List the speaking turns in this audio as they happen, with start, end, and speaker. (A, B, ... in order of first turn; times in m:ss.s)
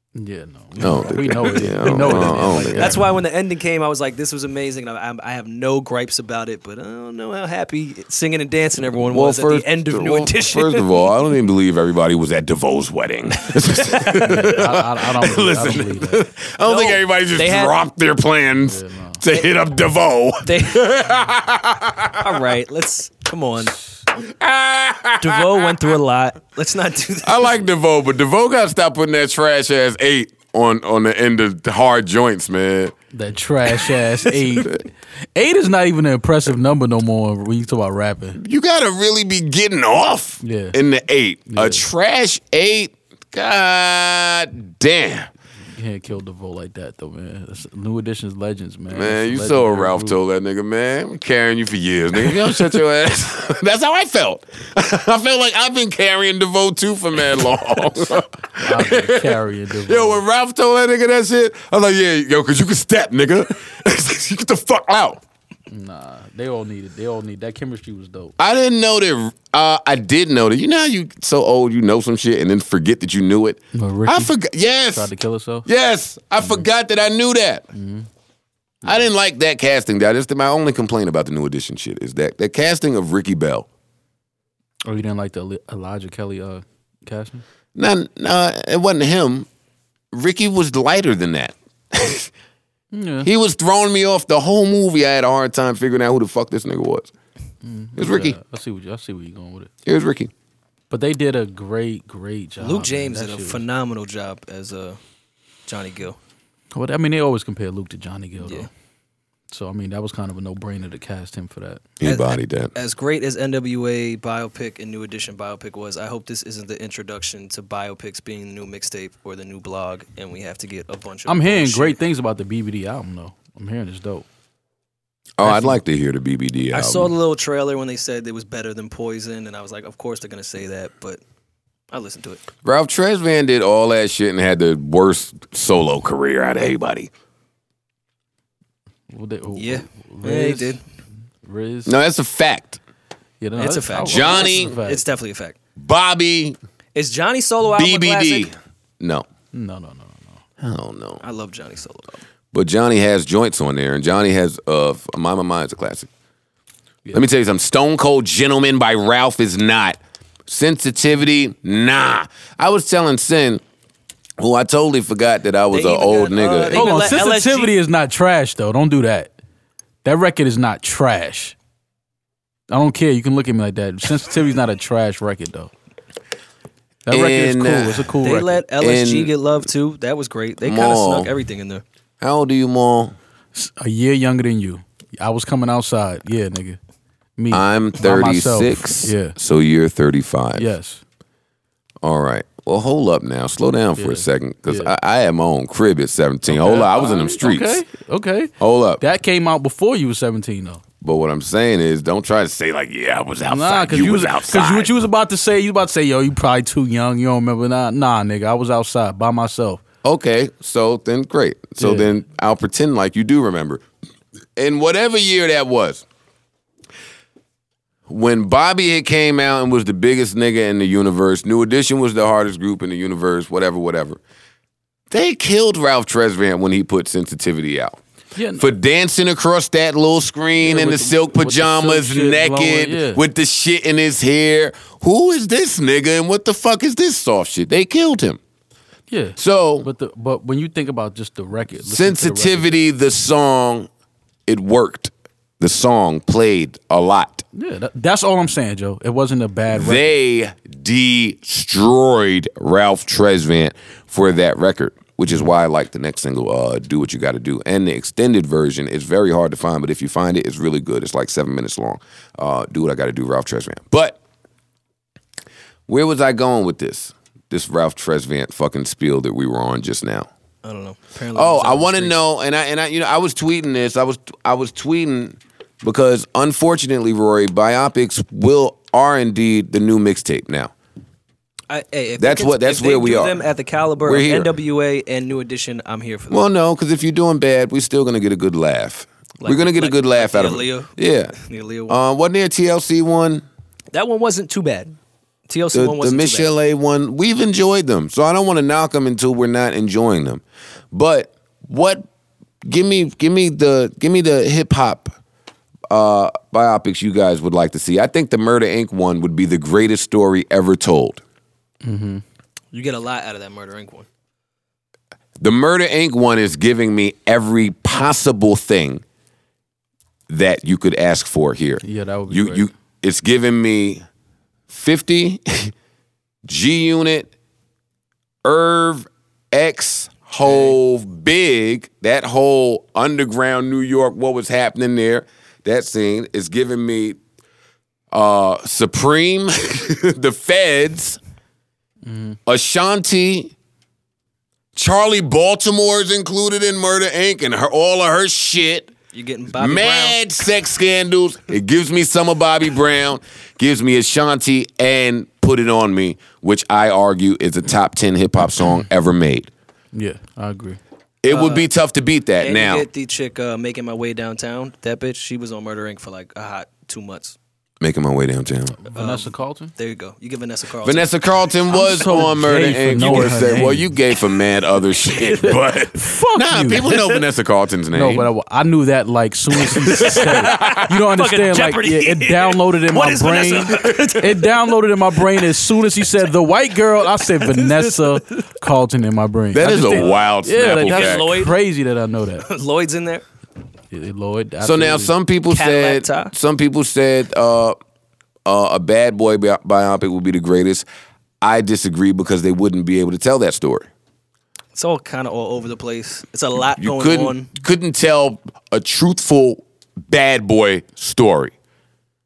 0:00.2-0:03.1 A
0:00.8-0:03.0 B
0:01.3-0:11.0 C
0:09.1-0:22.4 B
0:14.2-0:16.2 A
0:16.6-0:17.8 C
0:18.6-0:19.2 A
0:20.4-0:20.9 C
0:22.2-0:23.8 C
0:24.1-0:25.9 B
0:25.2-0:27.6 C
0:27.2-0:32.9 B
0:33.1-0:38.4 A
0:33.8-0:34.8 B
0:38.4-0:45.3 B
0:40.4-0:40.8 A
0:41.5-0:41.8 A
0:45.7-0:50.2 A
0:48.9-1:05.2 B
0:58.6-1:00.2 A
1:05.7-1:08.3 A
1:08.4-1:15.1 B
1:13.7-1:14.3 A
1:14.9-1:15.7 A
1:15.6-1:17.7 B
1:17.7-1:18.1 A
1:18.8-1:23.7 B
1:24.8-1:27.4 A
1:27.8-1:29.5 B
1:30.1-1:32.3 B
1:32.9-1:33.3 A
1:33.2-1:37.1 B
1:37.6-1:39.7 A
1:38.0-1:38.4 B
1:39.8-1:40.3 B
1:40.9-1:43.6 A
1:42.6-1:45.0 C
1:45.7-1:46.2 C
1:46.7-1:48.7 A
1:48.4-1:48.7 C
1:49.5-1:51.8 A
1:52.0-1:52.7 B
1:52.0-2:02.0 C
2:01.3-2:04.2 A
2:05.4-2:07.1 B
2:05.4-2:05.8 A
2:06.7-2:11.2 C
2:11.9-2:12.4 C
2:12.6-2:17.1 B
2:19.1-2:20.8 A
2:19.6-2:20.8 C
2:21.4-2:21.9 A
2:21.8-2:22.8 B
2:23.4-2:25.0 A
2:23.6-2:25.6 C
2:24.0-2:24.7 B
2:25.8-2:26.6 B
2:26.9-2:28.5 C
2:27.8-2:29.3 B
2:29.5-2:30.4 A
2:30.6-2:31.2 B
2:31.2-2:32.2 C
2:32.5-2:36.1 B
2:37.1-2:43.6 B
2:44.4-2:46.9 B
2:45.7-2:47.7 C
2:46.7-2:49.3 A
2:50.0-2:51.5 A
2:52.7-2:55.7 A
2:57.0-2:58.6 A
2:57.1-2:58.1 B
2:58.2-3:01.8 C
2:58.8-2:59.3 B
3:00.6-3:01.3 B
3:02.2-3:03.1 B
3:03.5-3:06.8 A
3:07.4-3:09.4 A
3:07.5-3:10.7 B
3:10.6-3:11.0 A
3:12.0-3:17.8 B
3:14.0-3:14.9 A
3:16.5-3:20.8 A
3:18.6-3:19.0 B
3:21.0-3:24.9 B
3:23.5-3:29.8 A
3:30.0-3:33.8 B
3:31.8-3:32.1 A
3:34.6-3:36.0 B
3:38.1-3:44.2 B
3:45.1-3:48.0 B
3:48.4-3:48.7 A
3:48.6-3:58.4 B
3:50.6-3:53.2 A
3:59.1-4:02.7 A
3:59.4-3:59.9 B
4:01.8-4:03.9 B
4:04.5-4:07.4 B
4:07.5-4:10.1 A
4:09.7-4:24.2 B
4:25.9-4:30.3 B
4:30.6-4:32.2 C
4:31.3-4:40.7 B
4:41.7-4:46.4 C
4:42.2-4:43.4 B
4:44.0-4:44.5 B
4:46.3-4:51.3 B
4:49.4-4:52.0 C
4:51.9-4:53.4 B
4:53.9-4:54.9 C
4:55.5-4:56.5 C
4:55.7-5:02.0 B
5:02.6-5:05.2 B
5:05.9-5:11.2 B
5:11.8-5:12.2 A
5:12.7-5:14.1 C
5:15.4-5:19.0 B
5:20.3-5:24.0 B
5:21.8-5:22.7 A
5:24.7-5:25.7 B
5:26.4-5:27.3 B
5:28.4-5:37.2 B
5:30.4-5:30.8 C
5:38.1-5:41.2 B
5:42.0-5:42.4 A
5:42.4-5:43.5 B
5:44.7-5:48.9 B
5:49.1-5:50.2 C
5:49.5-5:59.5 B
5:59.9-6:00.8 A
6:01.2-6:02.9 B
6:01.3-6:01.7 C
6:02.4-6:07.4 C
6:07.8-6:08.8 B
6:08.8-6:09.7 A
6:08.9-6:11.1 C
6:10.8-6:18.3 B
6:11.7-6:13.9 A
6:13.0-6:13.3 C
6:15.3-6:17.2 A
6:17.9-6:32.5 A
6:19.7-6:20.9 B
6:19.9-6:24.5 C
6:27.1-6:28.4 C
6:29.5-6:31.4 B
6:29.8-6:31.6 C
6:32.4-6:33.2 C
6:33.9-6:35.1 A
6:34.6-6:37.8 B
6:35.5-6:36.3 C
6:38.4-6:40.8 B
6:41.4-6:43.9 B
6:44.7-6:47.5 C
6:46.8-6:51.5 B